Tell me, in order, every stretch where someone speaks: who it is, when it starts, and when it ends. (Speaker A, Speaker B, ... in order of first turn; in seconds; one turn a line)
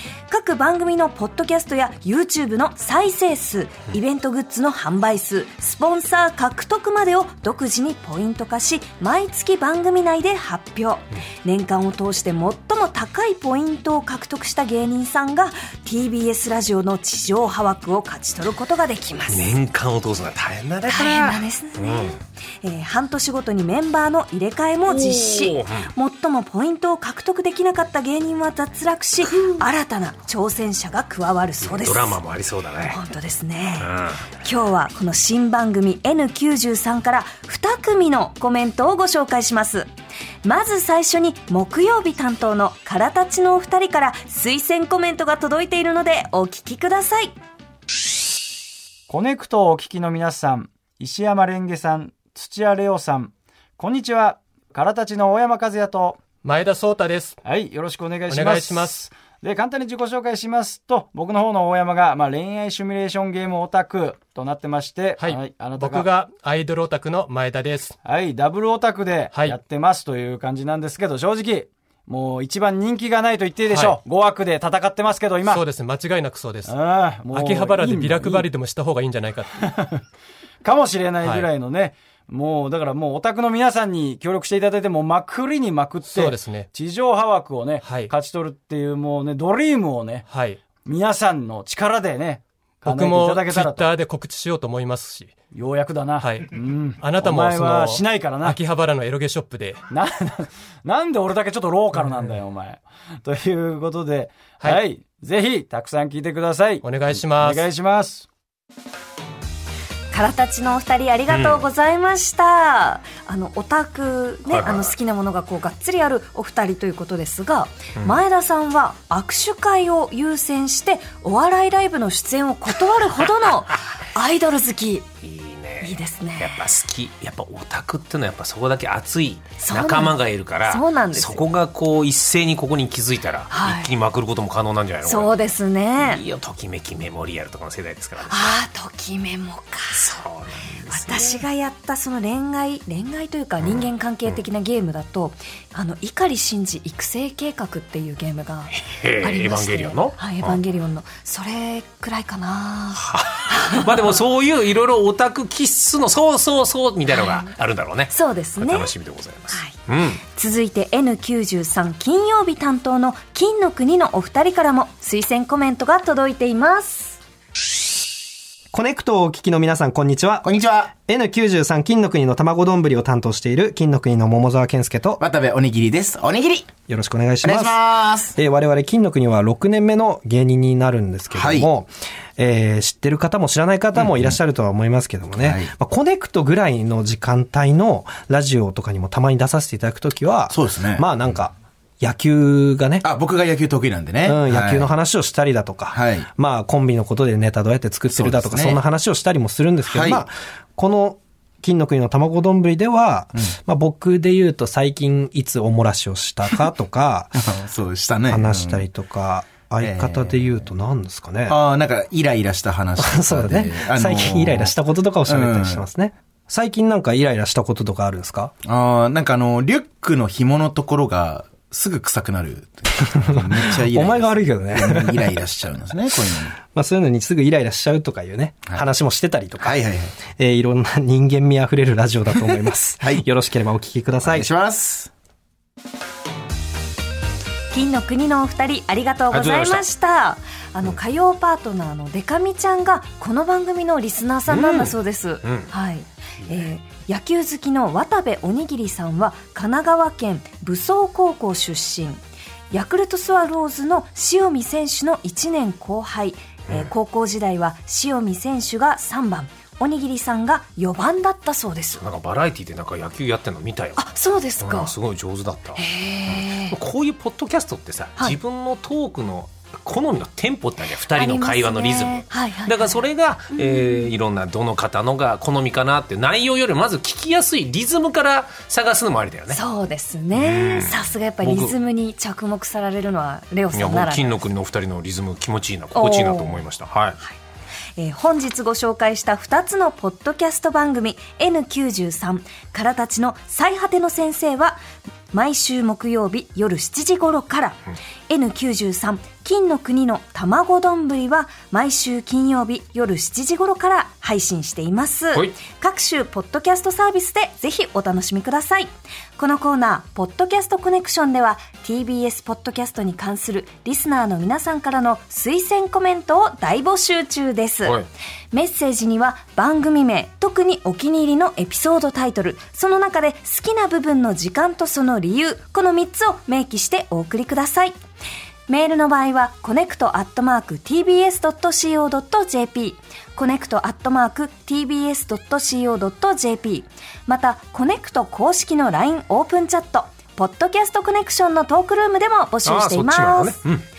Speaker A: 0.3-19.5
Speaker B: 19.3-22.2
Speaker A: 20.9-32.2
Speaker B: 24.9-25.9
Speaker B: 31.6-33.0
Speaker A: 32.9-33.9
Speaker B: 33.8-34.3
Speaker A: 34.4-39.9
Speaker A: 40.4-47.3
Speaker C: 49.1-56.2
Speaker D: 56.4-57.4
Speaker C: 57.4-66.1
Speaker D: 58.3-59.0
Speaker D: 65.2-68.0
Speaker C: 68.0-75.6
Speaker D: 69.3-69.6
Speaker D: 73.7-74.0
Speaker D: 75.5-76.8
Speaker C: 76.7-78.5
Speaker D: 77.3-79.6
Speaker C: 79.5-80.0
Speaker C: 80.6-90.2
Speaker D: 81.2-81.5
Speaker D: 86.0-86.7
Speaker D: 87.8-88.1
Speaker D: 90.3-90.7
Speaker C: 90.8-93.8
Speaker D: 92.8-95.4
Speaker C: 95.5-98.6
Speaker D: 96.2-99.8
Speaker C: 99.9-106.8
Speaker D: 101.9-102.3
Speaker D: 106.8-107.7
Speaker C: 107.4-108.2
Speaker A: 110.1-125.1
Speaker B: 111.3-111.6
Speaker B: 114.5-114.9
Speaker B: 125.2-135.3
Speaker A: 125.8-126.6
Speaker A: 129.6-131.4
Speaker A: 133.5-133.9
Speaker A: 135.0-136.2
Speaker B: 136.0-138.6
Speaker A: 138.2-140.2
Speaker B: 139.9-141.4
Speaker A: 140.9-153.9
Speaker B: 143.6-144.4
Speaker B: 148.7-150.6
Speaker B: 152.9-160.2
Speaker A: 157.1-157.5
Speaker A: 158.1-158.9
Speaker A: 159.5-167.2
Speaker E: 168.7-175.2
Speaker F: 170.4-170.9
Speaker F: 175.2-176.7
Speaker E: 176.9-177.8
Speaker F: 177.4-178.3
Speaker E: 178.3-193.1
Speaker F: 181.3-181.7
Speaker F: 184.0-184.3
Speaker F: 185.4-185.7
Speaker F: 190.5-191.1
Speaker F: 193.0-194.9
Speaker E: 194.2-207.4
Speaker F: 195.9-196.3
Speaker F: 198.1-198.8
Speaker F: 199.9-200.2
Speaker F: 207.4-208.8
Speaker E: 208.3-211.6
Speaker F: 209.8-210.6
Speaker F: 211.5-214.7
Speaker E: 213.0-218.5
Speaker F: 215.2-215.8
Speaker F: 218.6-226.6
Speaker E: 223.1-225.4
Speaker E: 226.6-234.5
Speaker F: 229.6-230.2
Speaker F: 232.4-233.2
Speaker F: 234.2-235.1
Speaker A: 237.7-262.0
Speaker B: 239.3-239.8
Speaker B: 244.5-245.7
Speaker B: 262.0-264.1
Speaker A: 264.0-264.9
Speaker B: 264.6-279.6
Speaker A: 265.8-266.8
Speaker A: 271.1-274.1
Speaker A: 279.5-284.4
Speaker B: 280.3-281.7
Speaker B: 283.7-287.2
Speaker A: 285.9-286.6
Speaker A: 288.0-294.8
Speaker A: 295.3-297.8
Speaker A: 298.3-318.0
Speaker A: 318.5-327.9
Speaker A: 328.7-343.6
Speaker B: 342.6-343.8